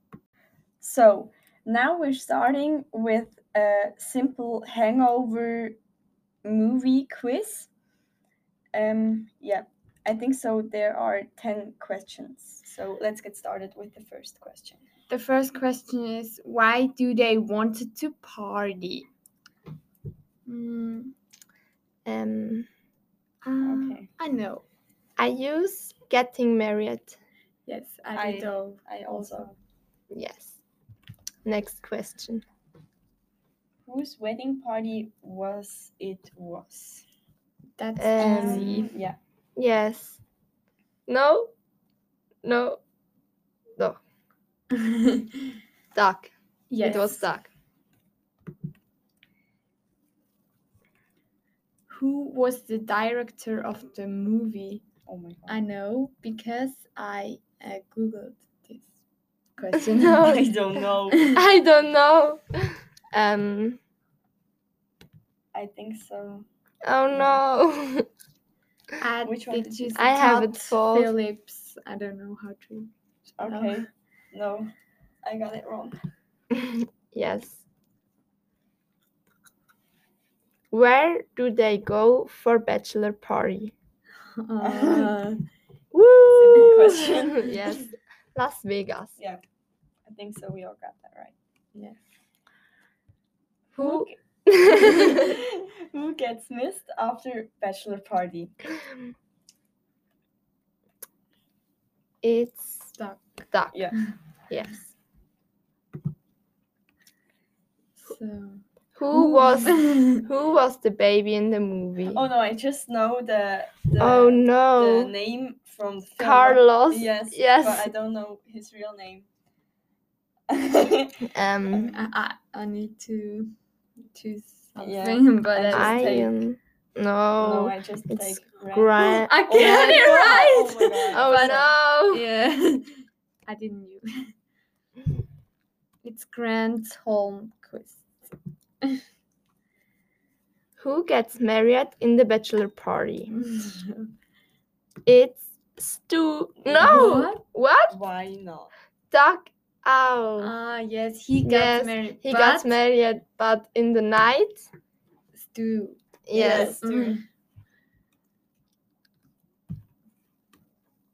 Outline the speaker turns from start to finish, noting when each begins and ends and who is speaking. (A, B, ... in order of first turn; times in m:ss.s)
0:00.8-0:05.8 A
0:06.4-0:07.7 A
0:08.7-0:14.8 A
0:15.1-0:19.1 B
0:20.5-0:21.1 B
0:22.0-0:22.7 C
0:23.4-0:24.6 B
0:23.6-0:24.1 A
0:25.2-0:27.2 C
0:27.6-0:29.5 B
0:28.1-0:29.5 A
0:30.1-0:30.5 C
0:31.4-0:32.4 C
0:33.9-0:37.0 A
0:37.8-0:38.9 B
0:38.0-0:38.8 C
0:38.2-0:39.2 A
0:39.6-0:40.2 C
0:41.1-0:41.5 C
0:42.4-0:42.8 C
0:44.7-0:45.5 B
0:45.9-0:47.5 C
0:46.7-0:47.3 B
0:51.9-0:54.8 B
0:55.0-0:55.7 A
0:55.5-0:58.9 B
0:59.6-1:00.4 B
0:59.9-1:00.5 C
1:00.0-1:01.2 A
1:01.1-1:01.4 B
1:01.3-1:03.8 C
1:05.5-1:06.4 A
1:06.8-1:08.0 C
1:07.1-1:07.4 A
1:09.0-1:12.9 B
1:09.2-1:10.0 A
1:09.9-1:11.1 C
1:13.4-1:14.7 A
1:13.4-1:13.8 B
1:15.2-1:16.0 A
1:16.5-1:17.6 C
1:20.7-1:23.7 C
1:24.4-1:25.4 B
1:24.6-1:25.2 A
1:25.9-1:29.2 C
1:26.4-1:27.5 A
1:30.0-1:31.3 A
1:33.8-1:35.3 C
1:33.8-1:34.1 B
1:33.8-1:34.1 A
1:34.7-1:38.6 A
1:34.8-1:35.2 B
1:42.2-1:42.9 C
1:43.0-1:43.4 B
1:43.5-1:43.8 C
1:44.5-1:44.9 C
1:48.0-1:50.2 B
1:49.0-1:52.2 C
1:52.1-1:59.3 A
1:54.0-1:55.1 C
1:56.2-1:57.9 C
2:00.5-2:01.9 A
2:01.3-2:01.9 C
2:01.9-2:03.5 B
2:04.1-2:06.3 B
2:04.8-2:06.3 A
2:05.7-2:09.4 C
2:07.4-2:11.7 A
2:09.0-2:12.8 B
2:11.1-2:12.2 C
2:13.5-2:14.0 B
2:16.0-2:18.3 B
2:20.8-2:23.3 C
2:23.3-2:24.1 B
2:25.0-2:28.0 C
2:26.6-2:27.2 A
2:26.8-2:27.4 B
2:27.9-2:28.7 A
2:29.1-2:30.5 C
2:30.4-2:32.8 B
2:31.4-2:34.6 C
2:35.3-2:37.2 B
2:36.3-2:37.1 C
2:36.3-2:37.2 A